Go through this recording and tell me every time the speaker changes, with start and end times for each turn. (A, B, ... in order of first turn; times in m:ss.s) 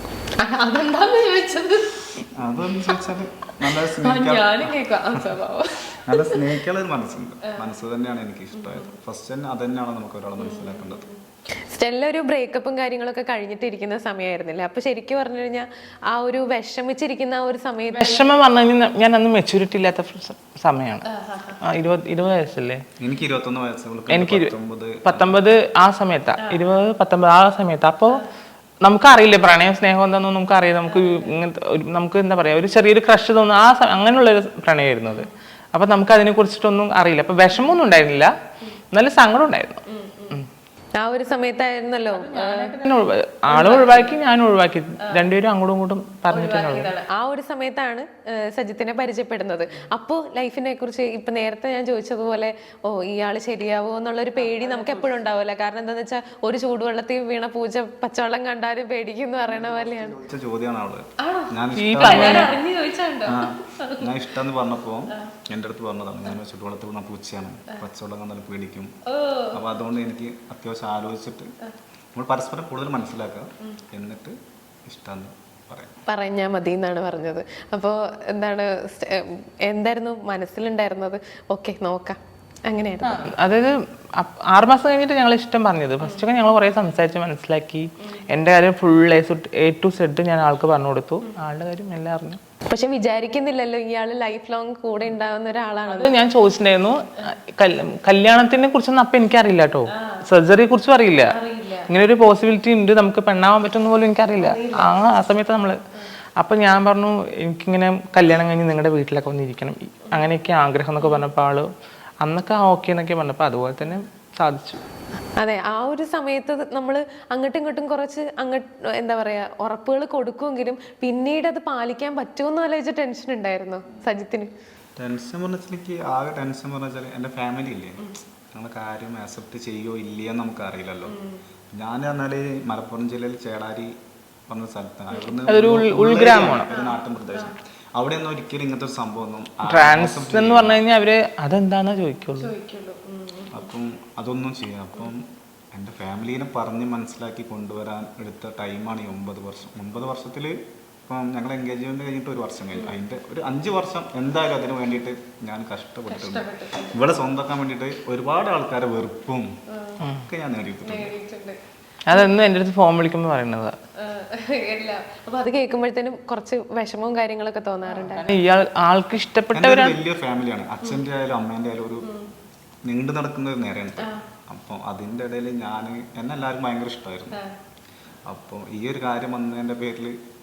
0:00.4-0:02.2 A
0:02.4-0:04.8 B
0:03.6-0:06.6 A
0:06.1-0:11.0 B
0:08.6-0:08.9 A
0:10.4-0:11.2 A
0:11.7-0:18.3 A
0:17.9-0:21.1 C
0:21.1-0:21.6 A
0:21.6-0:22.8 C
0:23.0-0:25.4 B
0:24.1-0:24.5 C
0:25.0-0:28.2 C
0:26.4-0:26.7 A
0:28.8-0:38.3 C
0:30.9-0:31.3 A
0:38.9-0:40.5 C
0:39.9-0:40.4 A
0:41.0-0:43.0 A
0:42.1-0:46.9 C
0:43.5-0:44.2 A
0:45.1-0:45.3 A
0:46.3-1:00.2 A
0:59.8-1:02.6 B
1:01.2-1:04.2 A
1:01.8-1:02.5 C
1:03.2-1:08.9 B
1:09.1-1:09.6 A
1:09.5-1:11.5 B
1:12.2-1:14.4 B
1:14.9-1:16.0 B
1:16.1-1:23.3 A
1:23.0-1:32.4 C
1:32.7-1:36.3 A
1:35.9-1:41.3 C
1:39.9-1:40.3 A
1:41.3-1:41.9 A
1:41.9-1:45.8 C
1:44.4-1:45.0 A
1:46.4-1:51.7 C
1:52.2-1:54.8 C
1:55.4-2:04.5 A
2:05.0-2:11.1 B
2:11.1-2:11.4 A
2:11.7-2:13.9 B
2:14.5-2:20.8 B
2:15.1-2:15.4 A
2:15.5-2:16.7 C
2:16.5-2:17.6 A
2:19.7-2:22.5 C
2:22.4-2:23.6 A
2:23.5-2:30.6 B
2:31.1-2:39.5 B
2:32.7-2:33.0 A
2:36.1-2:37.0 A
2:39.7-2:40.0 A
2:40.0-2:40.3 C
2:40.3-2:41.1 B
2:40.8-2:41.6 A
2:42.1-2:43.8 C
2:44.0-2:48.2 A
2:47.9-2:50.0 C
2:49.5-2:52.1 B
2:52.0-2:52.3 A
2:52.8-2:57.4 B
2:58.3-3:00.2 B